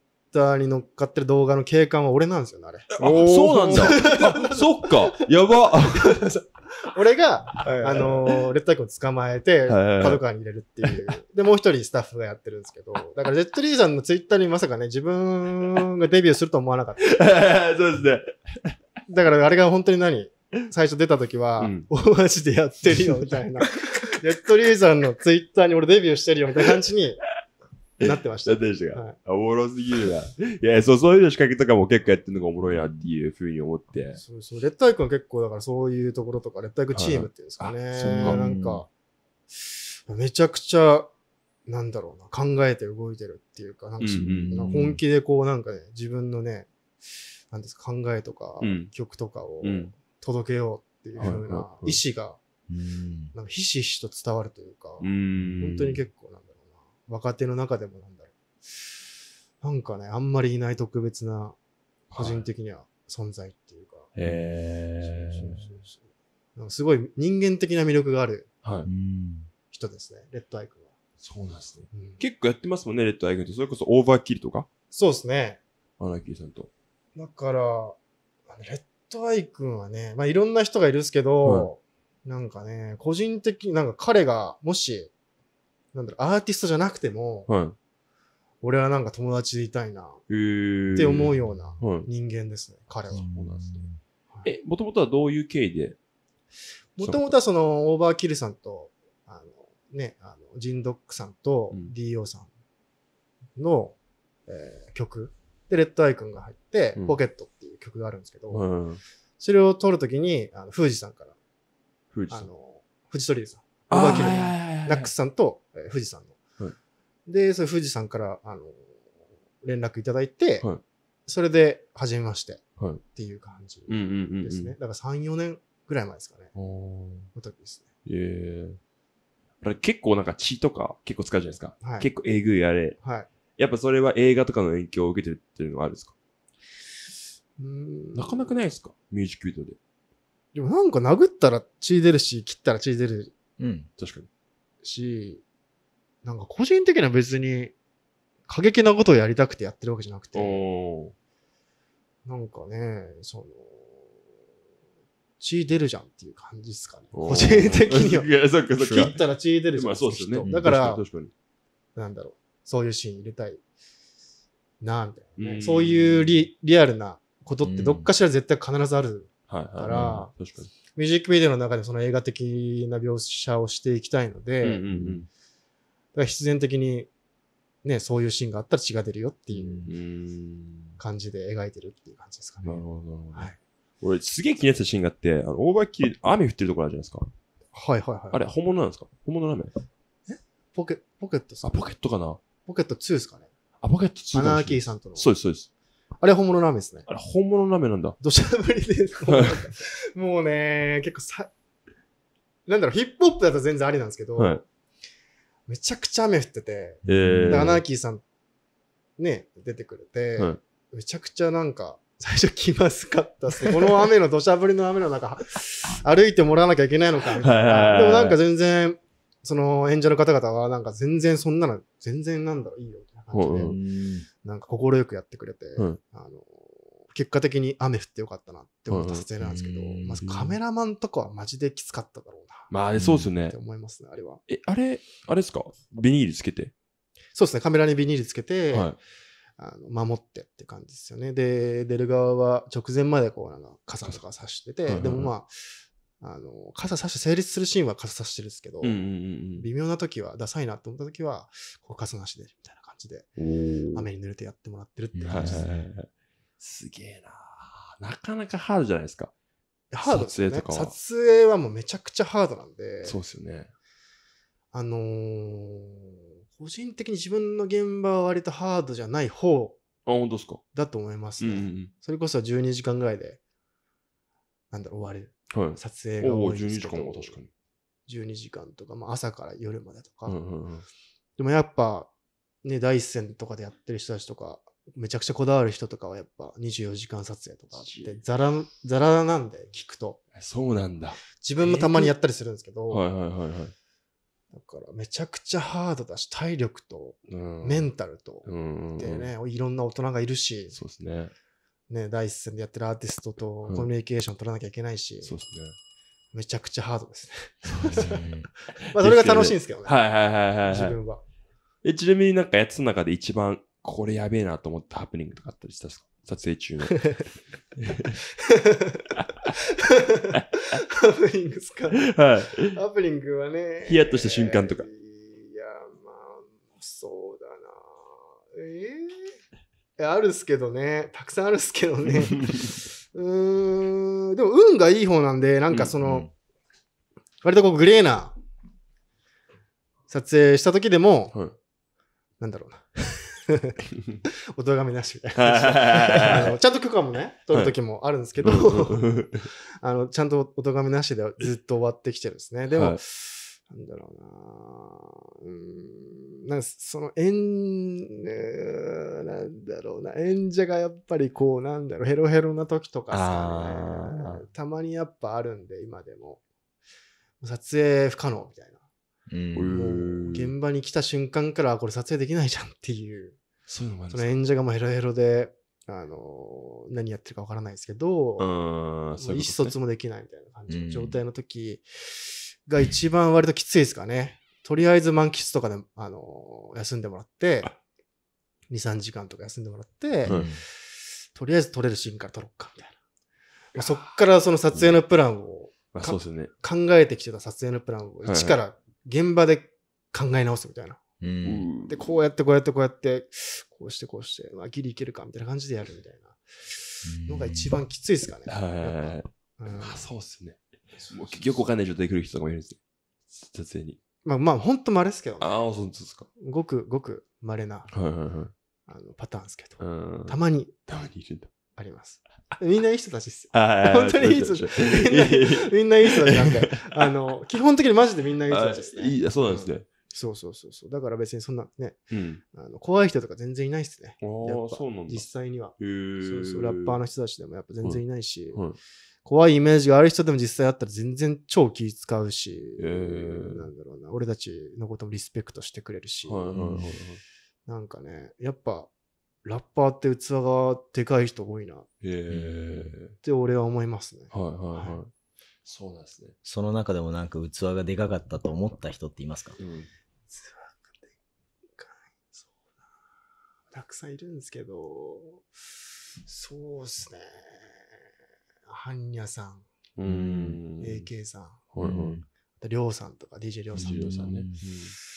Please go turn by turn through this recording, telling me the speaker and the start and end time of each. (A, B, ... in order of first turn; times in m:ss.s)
0:00.3-0:17.2 A
0:02.9-0:06.2 B
0:07.6-0:08.1 C
0:07.9-0:08.3 B
0:09.7-0:10.2 B
0:17.0-0:18.7 B
0:19.1-0:27.2 A
0:21.6-0:21.9 B
0:28.0-0:34.2 B
0:28.0-0:29.1 A
0:34.2-0:38.9 A
0:36.9-0:38.4 B
0:37.9-0:38.8 C
0:39.6-0:41.1 A
0:41.7-0:46.7 A
0:44.0-0:44.7 B
0:44.2-0:45.0 C
0:47.5-0:52.4 A
0:48.6-0:48.9 B
0:49.6-0:49.9 B
0:51.2-0:52.0 B
0:52.7-0:53.3 C
0:53.3-0:58.8 A
0:55.0-0:56.0 B
0:55.4-0:55.7 C
0:59.6-1:01.6 A
1:02.1-1:02.4 B
1:02.2-1:04.1 A
1:04.1-1:05.6 B
1:04.2-1:05.4 C
1:05.3-1:06.0 A
1:06.6-1:08.5 A
1:08.6-1:08.9 B
1:08.8-1:09.5 C
1:09.7-1:10.9 A
1:11.2-1:14.7 B
1:11.9-1:12.2 A
1:14.9-1:15.6 A
1:16.0-1:16.7 B
1:17.2-1:18.0 A
1:18.5-1:25.1 A
1:21.4-1:21.7 B
1:25.9-1:27.5 A
1:27.5-1:27.8 B
1:28.6-1:30.2 A
1:30.3-1:32.1 B
1:31.0-1:33.3 A
1:33.1-1:34.0 C
1:33.2-1:33.9 B
1:34.4-1:36.0 B
1:37.0-1:42.5 A
1:37.0-1:37.3 B
1:43.6-1:44.0 A
1:44.5-1:48.6 A
1:48.5-1:49.0 B
1:49.4-1:51.3 A
1:52.1-1:52.5 B
1:52.3-1:56.4 A
1:53.9-1:55.1 B
1:57.3-1:58.8 A
1:59.6-2:00.7 A
2:01.3-2:06.5 A
2:03.9-2:04.7 B
2:06.5-2:07.3 B
2:07.3-2:07.8 A
2:08.0-2:08.8 B
2:09.6-2:13.0 B
2:11.8-2:12.1 A
2:13.0-2:13.3 A
2:13.6-2:16.1 B
2:17.6-2:18.5 A
2:18.1-2:19.8 B
2:20.5-2:23.3 A
2:23.6-2:23.9 C
2:24.0-2:24.3 B
2:24.8-2:25.4 A
2:26.2-2:27.7 A
2:28.5-2:30.6 A
2:30.3-2:31.1 B
2:32.2-2:34.0 A
2:35.4-2:41.0 A
2:37.1-2:39.2 B
2:38.7-2:39.2 C
2:39.7-2:41.3 B
2:40.4-2:40.7 C
2:42.0-2:43.6 A
2:44.8-2:50.3 A
2:45.4-2:46.4 B
2:47.6-2:48.1 C
2:49.5-2:50.7 B
2:49.9-2:50.2 C
2:50.9-2:54.8 A
2:54.6-2:55.3 B
2:54.9-2:55.2 C
2:56.1-2:57.1 A
2:57.8-2:59.9 A
2:59.5-2:59.9 C
2:59.8-3:01.0 B
3:01.0-3:02.8 A
3:02.6-3:07.3 B
3:07.7-3:08.4 A
3:08.3-3:09.7 B
3:10.3-3:11.9 A
3:11.6-3:12.4 B
3:12.6-3:13.5 A
3:13.8-3:15.7 B
3:14.3-3:15.3 A
3:16.2-3:17.1 A
3:17.1-3:18.2 B
3:18.2-3:21.5 A
3:19.3-3:19.7 B
3:22.7-3:24.6 A
3:24.4-3:24.6 B
3:25.7-3:28.2 A
3:27.0-3:27.8 C
3:27.0-3:27.8 B
3:29.2-3:43.7 A
3:37.4-3:38.4 B
3:43.3-3:43.8 B
3:43.6-3:44.3 C
3:44.4-3:52.7 A
3:48.9-3:49.2 B
3:49.4-3:50.2 C
3:50.2-3:50.6 B
3:52.7-3:53.6 B
3:53.0-3:53.3 C
3:53.5-3:54.4 A
3:54.5-3:56.7 B
3:57.3-3:59.0 A
3:58.7-3:59.0 B
3:59.6-4:05.5 A
4:04.9-4:05.3 B
4:06.2-4:09.0 A
4:08.8-4:09.7 B
4:09.6-4:13.3 A
4:13.4-4:14.1 B
4:13.9-4:15.6 A
4:15.1-4:15.9 C
4:15.3-4:19.3 B
4:19.9-4:23.2 A
4:20.0-4:20.9 B
4:23.0-4:23.7 B
4:24.7-4:29.8 A
4:30.0-4:30.6 B
4:30.7-4:33.4 A
4:31.4-4:31.9 B
4:34.7-4:37.4 A
4:35.5-4:37.5 B
4:38.1-4:40.4 A
4:40.2-4:40.8 B
4:41.4-4:42.1 A
4:42.6-4:50.2 A
4:47.7-4:48.2 B
4:50.4-4:52.1 B
4:51.3-4:53.0 A
4:52.9-4:53.7 B
4:54.5-5:00.7 A
4:57.3-4:57.9 B
4:58.4-4:59.3 B
5:00.7-5:01.3 B
5:01.9-5:05.3 A
5:05.2-5:05.7 B
5:06.3-5:10.0 A
5:07.6-5:08.2 B
5:07.8-5:08.5 C
5:08.9-5:11.0 B
5:10.7-5:11.2 A
5:11.8-5:17.1 B
5:16.9-5:17.2 A
5:17.8-5:18.2 B
5:18.4-5:29.3 A
5:20.3-5:20.8 B
5:21.9-5:22.8 B
5:23.8-5:24.8 B
5:30.0-5:36.3 A
5:32.2-5:32.7 B
5:36.0-5:36.3 C
5:37.4-5:38.3 A
5:40.1-5:41.3 A
5:42.4-5:49.2 A
5:45.4-5:46.6 B
5:48.4-5:49.5 B
5:49.8-6:06.4 A
5:52.7-5:53.0 B
6:03.1-6:04.4 B
6:07.4-6:08.8 A
6:09.3-6:09.7 C
6:09.5-6:10.5 B
6:09.7-6:13.4 A
6:13.7-6:14.3 B
6:14.1-6:18.5 A
6:18.4-6:19.7 B
6:19.2-6:27.8 A
6:20.7-6:21.2 C
6:28.7-6:33.0 A
6:30.2-6:30.6 C
6:33.7-6:41.0 A
6:33.8-6:34.1 B
6:35.9-6:36.5 B
6:38.2-6:38.6 B
6:41.2-6:41.6 C
6:41.4-6:42.1 B
6:41.9-6:50.1 A
6:47.0-6:47.8 C
6:48.5-6:52.8 B
6:51.0-6:51.4 A
6:53.3-6:54.0 B
6:54.2-6:55.6 A
6:55.4-6:56.3 B
6:56.4-6:57.9 A
6:57.9-6:58.5 B
6:58.9-7:00.7 A
6:59.8-7:01.5 B
7:01.8-7:12.0 A
7:03.5-7:07.1 B
7:08.5-7:09.9 B
7:12.1-7:12.4 B
7:12.5-7:18.6 A
7:14.2-7:15.2 B
7:15.8-7:17.0 B
7:19.2-7:26.6 A
7:22.8-7:23.7 B
7:26.3-7:27.2 B
7:26.6-7:26.9 C
7:27.6-7:28.9 A
7:29.4-7:31.9 A
7:32.0-7:33.1 B
7:32.3-7:32.9 C
7:33.2-7:35.0 A
7:34.3-7:35.1 B
7:35.6-7:36.4 B
7:36.4-7:39.6 C
7:39.6-7:39.9 B
7:40.3-7:40.9 A
7:41.8-7:42.4 A
7:43.7-7:45.4 A
7:46.2-7:47.8 A
7:48.7-7:49.6 A
7:50.0-7:51.1 B
7:50.0-7:50.6 C
7:50.8-7:51.6 A
7:51.7-7:52.2 B
7:51.8-7:52.2 C
7:52.6-7:54.3 A
7:53.7-7:54.9 B
7:53.8-7:54.6 C